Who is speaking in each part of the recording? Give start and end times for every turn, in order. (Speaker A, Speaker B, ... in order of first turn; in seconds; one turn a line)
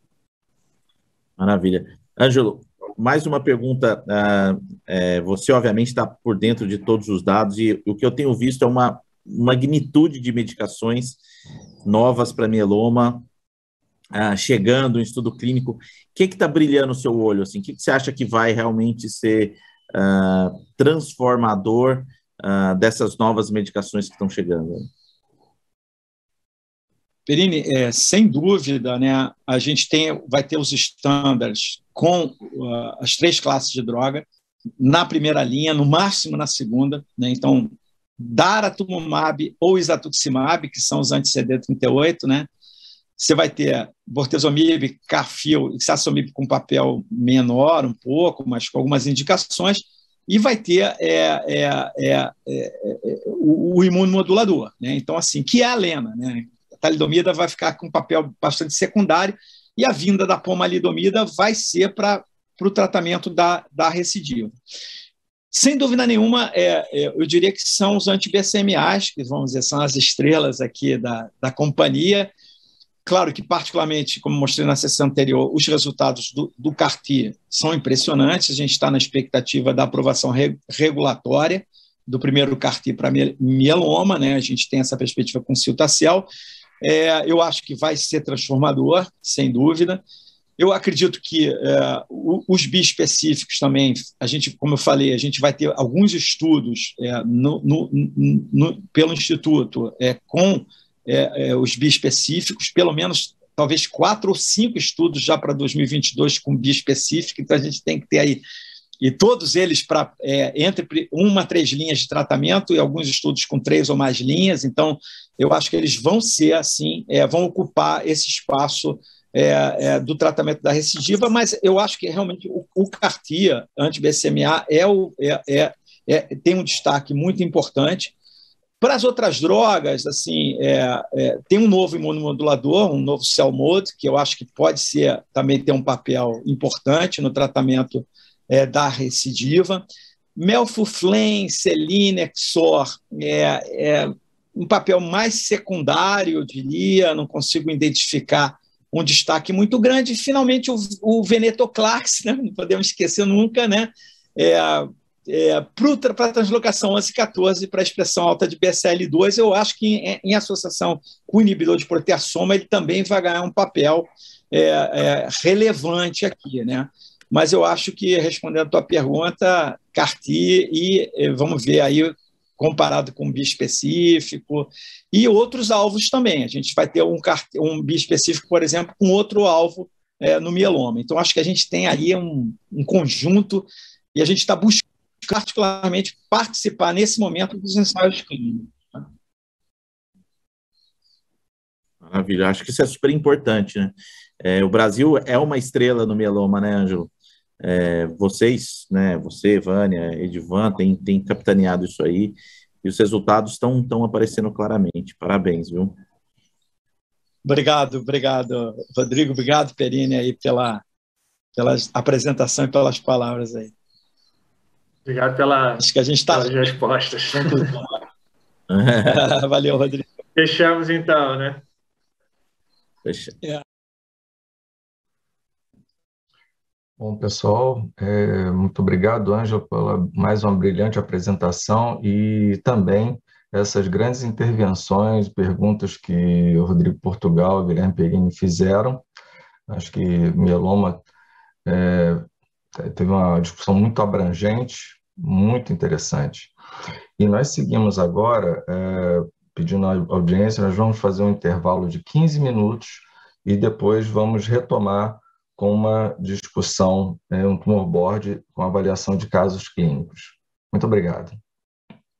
Speaker A: 1.4-11.2
Speaker A: 11.8-13.2
Speaker A: 14.1-24.9
Speaker B: 27.3-34.2
Speaker B: 34.8-42.5
Speaker B: 43.2-64.5
Speaker B: 65.5-72.3
Speaker B: 73.0-86.3
Speaker B: 86.8-90.0
Speaker B: 90.6-108.4
Speaker B: 109.0-128.1
Speaker B: 128.8-139.8
Speaker B: 140.4-189.0
Speaker A: 192.0-197.1
Speaker A: 197.6-206.0
Speaker B: 207.4-210.8
Speaker B: 211.6-213.7
Speaker C: 215.0-217.8
Speaker B: 215.8-216.7
Speaker B: 217.3-217.9
Speaker A: 218.7-219.2
Speaker B: 219.0-220.1
Speaker C: 220.4-221.6
Speaker A: 223.0-223.4
Speaker D: 227.0-239.0
Speaker D: 239.7-241.1
Speaker D: 241.6-242.3
Speaker D: 242.8-246.5
Speaker D: 247.2-261.4